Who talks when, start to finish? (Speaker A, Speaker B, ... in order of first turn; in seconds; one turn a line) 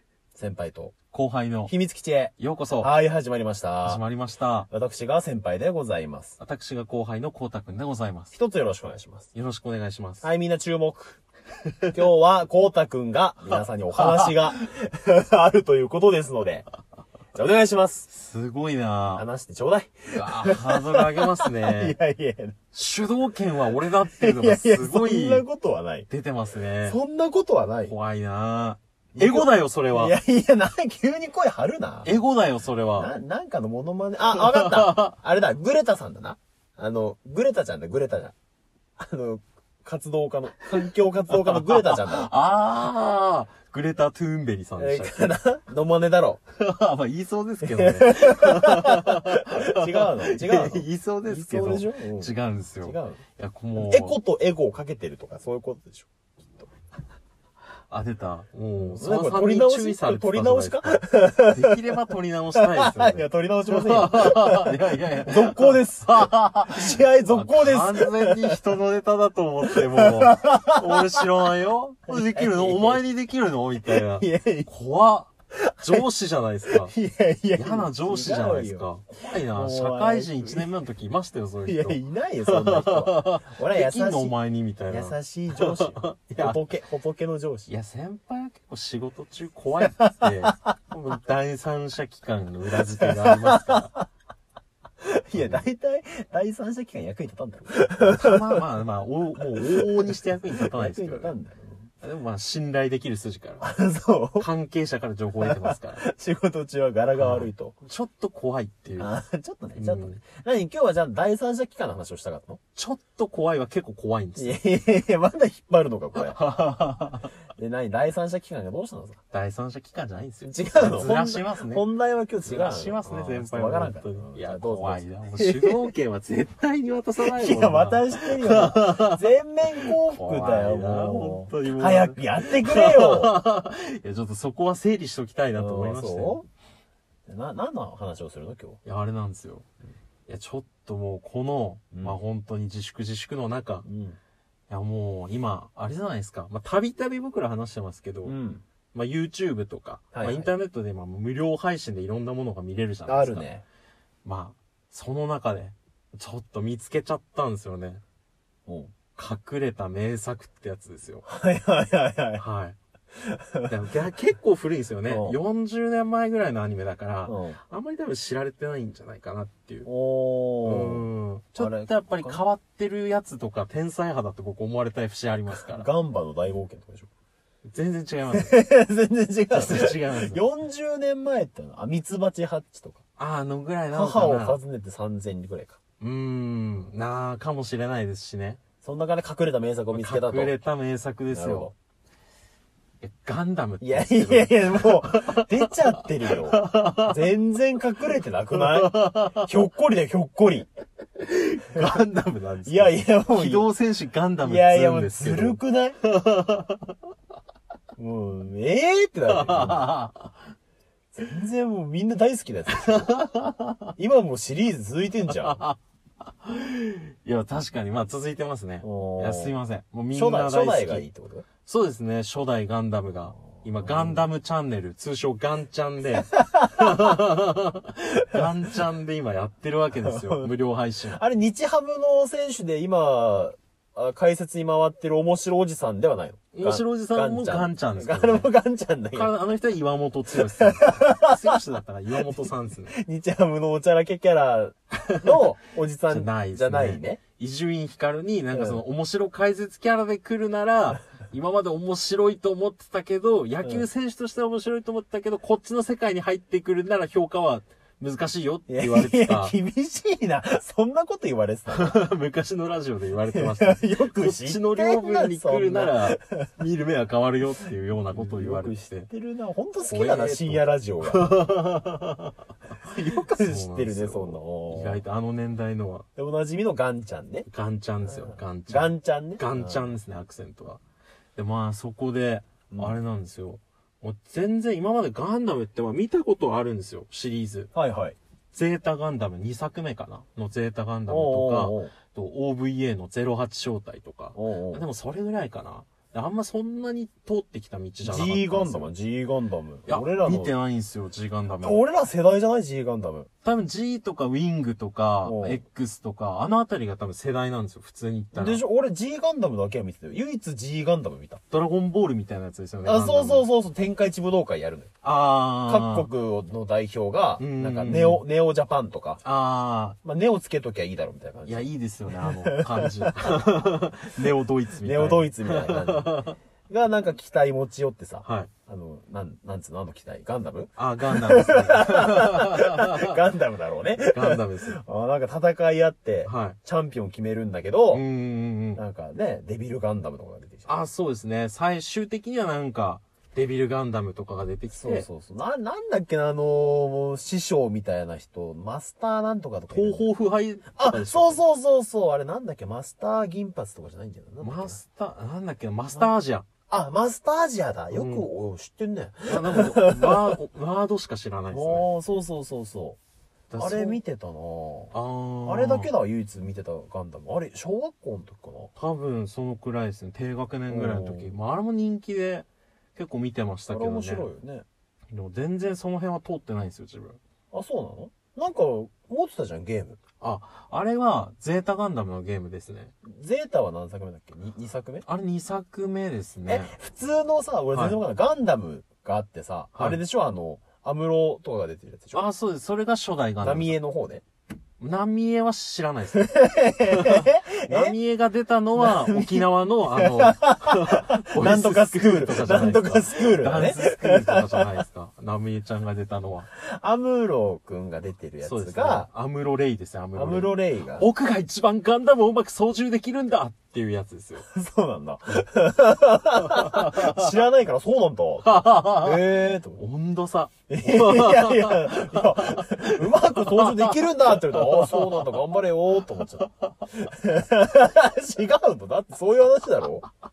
Speaker A: 0.3-0.9
Speaker B: 1.1-1.7
Speaker A: 1.7-4.0
Speaker B: 2.4-2.9
Speaker B: 3.8-4.7
Speaker A: 4.7-6.4
Speaker B: 6.4-8.3
Speaker A: 8.3-9.3
Speaker B: 9.3-10.3
Speaker A: 10.2-11.2
Speaker A: 11.9-16.7
Speaker B: 14.0-14.3
Speaker A: 17.3-18.1
Speaker B: 18.1-19.2
Speaker A: 19.1-22.6
Speaker B: 20.1-21.9
Speaker B: 22.7-25.4
Speaker A: 23.9-26.1
Speaker B: 26.1-27.0
Speaker A: 26.8-27.9
Speaker B: 27.8-30.2
Speaker A: 29.1-32.2
Speaker B: 32.0-33.1
Speaker A: 33.0-38.3
Speaker B: 34.3-35.1
Speaker A: 39.0-42.3
Speaker B: 41.4-45.3
Speaker A: 44.8-46.4
Speaker B: 46.6-54.2
Speaker A: 47.6-53.2
Speaker A: 53.8-56.7
Speaker B: 57.9-75.3
Speaker A: 58.8-62.0
Speaker A: 62.5-68.6
Speaker A: 69.7-71.2
Speaker A: 72.1-73.0
Speaker A: 73.8-74.7
Speaker A: 75.7-76.0
Speaker B: 75.8-76.9
Speaker A: 76.7-80.7
Speaker B: 77.6-86.6
Speaker A: 81.7-84.3
Speaker A: 84.9-87.7
Speaker B: 87.7-93.9
Speaker A: 89.8-90.7
Speaker A: 93.0-94.1
Speaker A: 95.0-98.6
Speaker B: 95.3-95.6
Speaker B: 98.0-101.3
Speaker A: 99.5-101.9
Speaker B: 102.0-103.7
Speaker A: 103.6-104.5
Speaker B: 104.4-106.0
Speaker A: 105.4-107.8
Speaker B: 107.2-109.1
Speaker A: 109.0-112.6
Speaker B: 109.8-110.2
Speaker B: 112.8-114.6
Speaker A: 114.4-116.4
Speaker B: 116.2-117.3
Speaker A: 117.6-119.2
Speaker B: 119.3-121.9
Speaker A: 120.4-125.8
Speaker B: 122.4-136.4
Speaker A: 127.2-133.3
Speaker A: 135.6-136.4
Speaker A: 137.3-138.8
Speaker B: 138.8-139.7
Speaker B: 140.3-143.8
Speaker A: 141.9-142.2
Speaker A: 143.8-144.2
Speaker B: 144.7-148.3
Speaker A: 148.2-148.6
Speaker B: 148.9-153.5
Speaker A: 150.1-150.5
Speaker A: 153.1-153.6
Speaker B: 154.2-158.0
Speaker A: 158.7-158.9
Speaker B: 159.2-161.2
Speaker A: 161.3-162.4
Speaker B: 162.4-162.8
Speaker A: 163.2-163.7
Speaker B: 163.7-169.9
Speaker A: 165.1-165.4
Speaker A: 167.3-167.6
Speaker A: 169.8-171.0
Speaker B: 170.6-175.8
Speaker A: 171.6-172.4
Speaker A: 175.7-177.1
Speaker B: 177.7-178.6
Speaker A: 178.3-183.0
Speaker B: 179.5-180.4
Speaker B: 183.2-184.6
Speaker A: 183.9-185.8
Speaker B: 186.0-188.6
Speaker A: 188.8-190.6
Speaker B: 189.9-191.7
Speaker A: 191.3-191.7
Speaker B: 193.0-197.2
Speaker A: 193.8-200.7
Speaker B: 198.5-199.7
Speaker B: 201.2-206.9
Speaker A: 202.7-203.7
Speaker A: 204.4-206.0
Speaker A: 208.0-209.9
Speaker B: 209.3-210.4
Speaker A: 211.1-213.1
Speaker B: 212.7-213.9
Speaker A: 214.0-215.6
Speaker B: 215.3-221.0
Speaker A: 218.8-219.6
Speaker A: 220.1-221.4
Speaker B: 221.7-231.2
Speaker A: 223.4-224.3
Speaker A: 226.3-226.8
Speaker A: 230.0-230.5
Speaker A: 231.1-239.3
Speaker B: 236.5-238.5
Speaker B: 239.1-242.9
Speaker A: 240.6-241.6
Speaker A: 242.2-247.2
Speaker B: 246.1-259.6
Speaker A: 248.5-248.8
Speaker A: 258.7-262.0
Speaker B: 261.7-269.1
Speaker A: 263.3-266.5
Speaker A: 268.1-271.6
Speaker B: 269.9-272.3
Speaker A: 272.8-275.0
Speaker B: 273.4-276.1
Speaker A: 276.2-277.5
Speaker B: 277.5-280.8
Speaker A: 278.0-279.9
Speaker B: 281.4-287.7
Speaker A: 282.7-283.0
Speaker A: 287.7-288.2
Speaker B: 288.5-298.9
Speaker A: 291.1-291.9
Speaker A: 294.4-294.8
Speaker A: 298.0-300.5
Speaker B: 299.9-301.8
Speaker A: 301.6-303.3
Speaker B: 303.4-308.6
Speaker A: 305.2-305.6
Speaker A: 308.3-311.4
Speaker B: 311.5-313.5
Speaker A: 312.8-314.9
Speaker B: 315.0-316.1
Speaker A: 315.6-319.2
Speaker B: 317.4-318.2
Speaker B: 319.2-320.0
Speaker A: 320.0-323.6
Speaker B: 321.5-326.4
Speaker A: 324.8-338.0
Speaker B: 328.2-328.5
Speaker B: 330.8-333.2
Speaker B: 334.1-334.8
Speaker B: 336.2-336.6
Speaker B: 337.9-338.8
Speaker A: 338.8-340.8
Speaker B: 340.7-345.1
Speaker A: 344.7-350.1
Speaker B: 349.7-351.4
Speaker A: 350.8-354.8
Speaker B: 354.4-356.5
Speaker A: 356.7-360.4
Speaker B: 357.9-358.3
Speaker B: 359.3-361.9
Speaker A: 361.5-363.0
Speaker B: 363.5-364.0
Speaker A: 363.6-364.9
Speaker B: 364.9-365.9
Speaker A: 365.4-368.7
Speaker B: 368.8-374.3
Speaker A: 370.7-371.3
Speaker A: 373.7-374.6
Speaker B: 375.1-377.2
Speaker A: 377.5-380.0
Speaker B: 380.2-382.9
Speaker A: 383.0-385.1
Speaker B: 385.1-386.7
Speaker A: 386.5-392.3
Speaker B: 387.7-388.0
Speaker B: 389.7-390.0
Speaker B: 392.1-393.8
Speaker A: 393.4-394.2
Speaker B: 394.8-396.4
Speaker A: 396.1-397.9
Speaker B: 396.9-406.5
Speaker A: 398.8-404.7
Speaker A: 406.6-409.1
Speaker B: 408.4-414.4
Speaker A: 410.1-411.1
Speaker A: 414.4-419.8
Speaker B: 416.4-417.3
Speaker B: 418.4-425.4
Speaker A: 420.7-430.1